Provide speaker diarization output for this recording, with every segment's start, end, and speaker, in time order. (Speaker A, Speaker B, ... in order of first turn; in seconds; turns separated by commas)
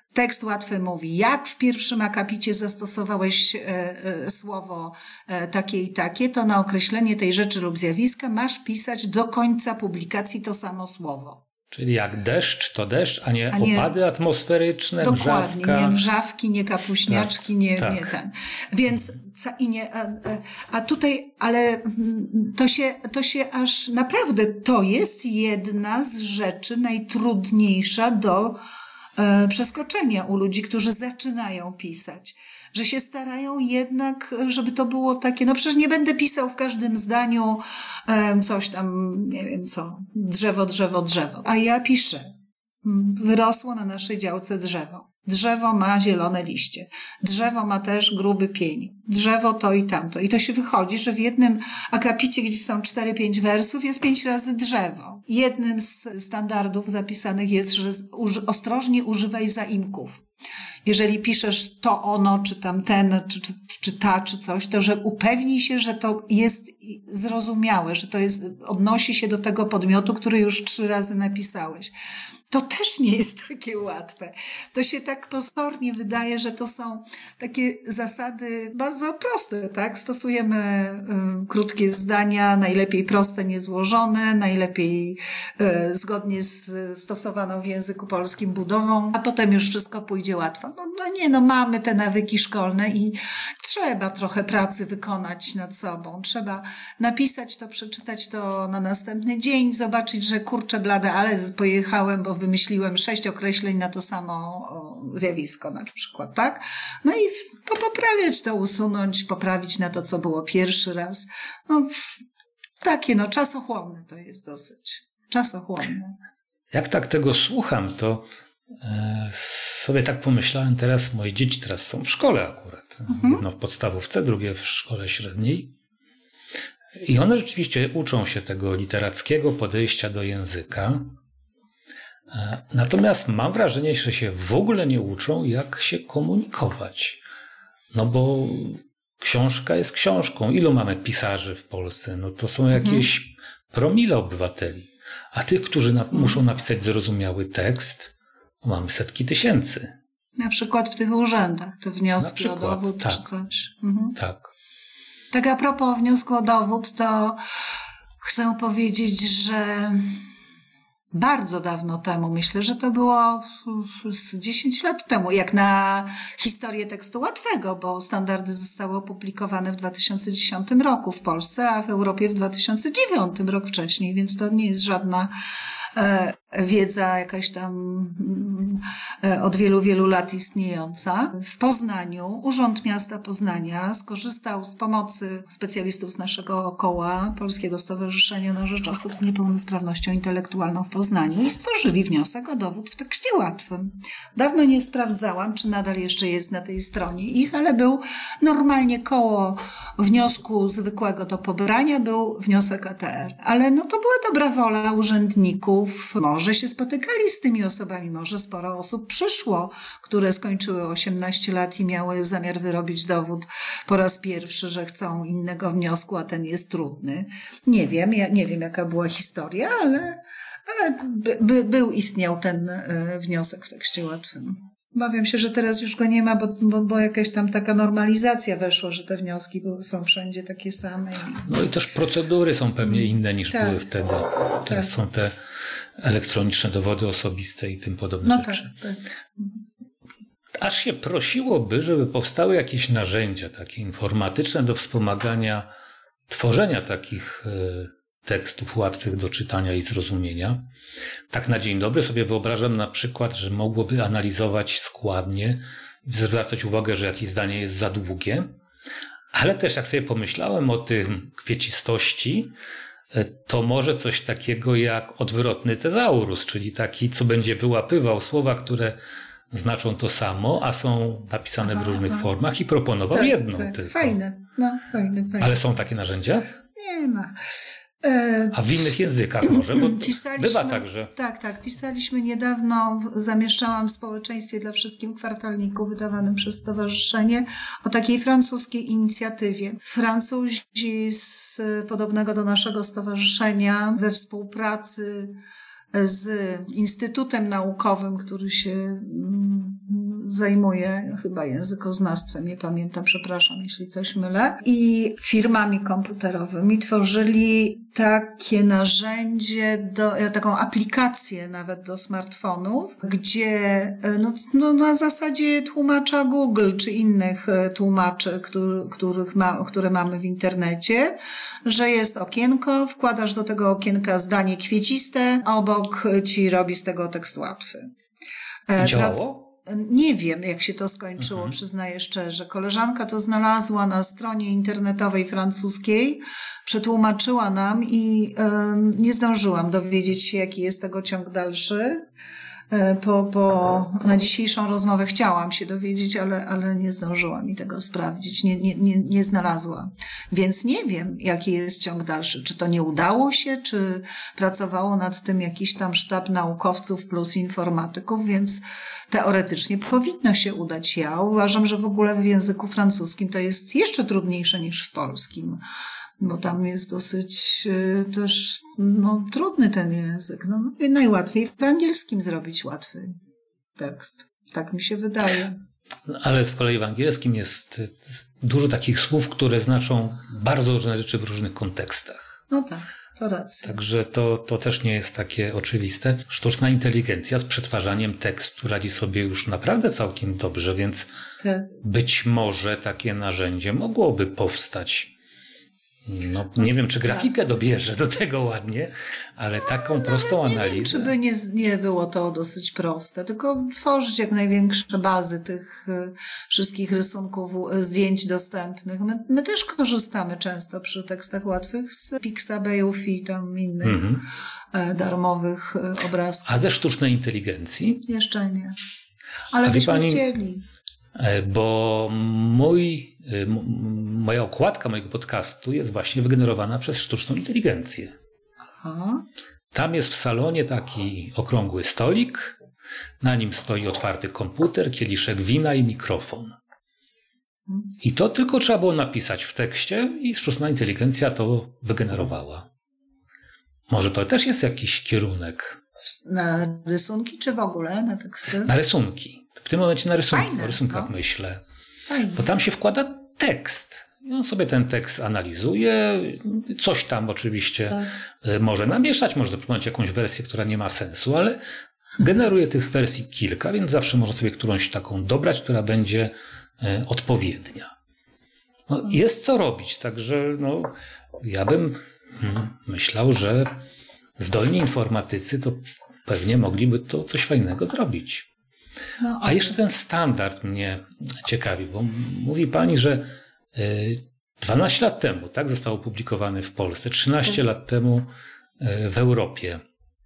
Speaker A: 0.1-11.4, Speaker B: 11.7-16.0, Speaker A: 13.5-13.9, Speaker A: 15.0-28.6, Speaker B: 17.1-18.1, Speaker A: 29.2-42.3, Speaker A: 42.8-60.2, Speaker A: 60.9-71.9, Speaker A: 72.5-112.1, Speaker A: 112.8-116.2, Speaker B: 116.7-125.8, Speaker A: 123.1-123.4, Speaker B: 127.0-131.1, Speaker B: 132.3-137.2, Speaker B: 137.9-149.9, Speaker A: 142.8-143.1, Speaker A: 150.4-154.2, Speaker B: 152.2-153.2, Speaker B: 154.2-154.5, Speaker A: 155.3-157.4, Speaker A: 158.2-160.2, Speaker A: 161.1-175.3, Speaker A: 175.9-231.5, Speaker B: 231.5-235.4, Speaker A: 232.8-233.8, Speaker B: 236.0-238.7, Speaker A: 238.2-239.5, Speaker B: 240.6-245.7, Speaker B: 246.3-250.7, Speaker B: 251.3-258.5, Speaker B: 259.3-262.5, Speaker B: 263.1-269.0, Speaker B: 269.5-274.2, Speaker A: 271.6-272.3, Speaker A: 273.1-275.6, Speaker B: 275.4-276.5, Speaker A: 276.8-277.5, Speaker A: 278.0-278.6, Speaker B: 278.5-281.1, Speaker A: 279.5-295.4, Speaker A: 295.9-327.9, Speaker A: 328.7-342.0, Speaker B: 328.8-329.3, Speaker B: 331.2-331.5, Speaker A: 342.7-365.6, Speaker A: 366.2-373.2, Speaker A: 373.8-375.6, Speaker B: 376.1-382.4, Speaker A: 382.5-383.8, Speaker B: 383.6-391.1, Speaker A: 391.4-391.7, Speaker B: 391.8-395.1, Speaker B: 396.1-401.1, Speaker A: 396.6-397.4, Speaker A: 399.6-416.7, Speaker B: 413.8-414.2, Speaker B: 416.5-418.0, Speaker A: 418.1-418.8, Speaker A: 419.5-420.6, Speaker B: 419.6-420.2, Speaker B: 421.1-428.1, Speaker A: 428.8-429.2, Speaker B: 429.7-432.6, Speaker B: 433.2-436.6, Speaker B: 438.0-442.7, Speaker B: 443.9-445.8, Speaker A: 446.1-448.7, Speaker B: 448.6-451.6, Speaker A: 450.3-451.1, Speaker A: 452.1-452.5, Speaker B: 452.3-461.6, Speaker B: 462.2-467.9, Speaker B: 468.9-473.7, Speaker B: 474.4-478.5, Speaker A: 479.2-479.8, Speaker B: 479.4-488.3, Speaker B: 488.8-489.8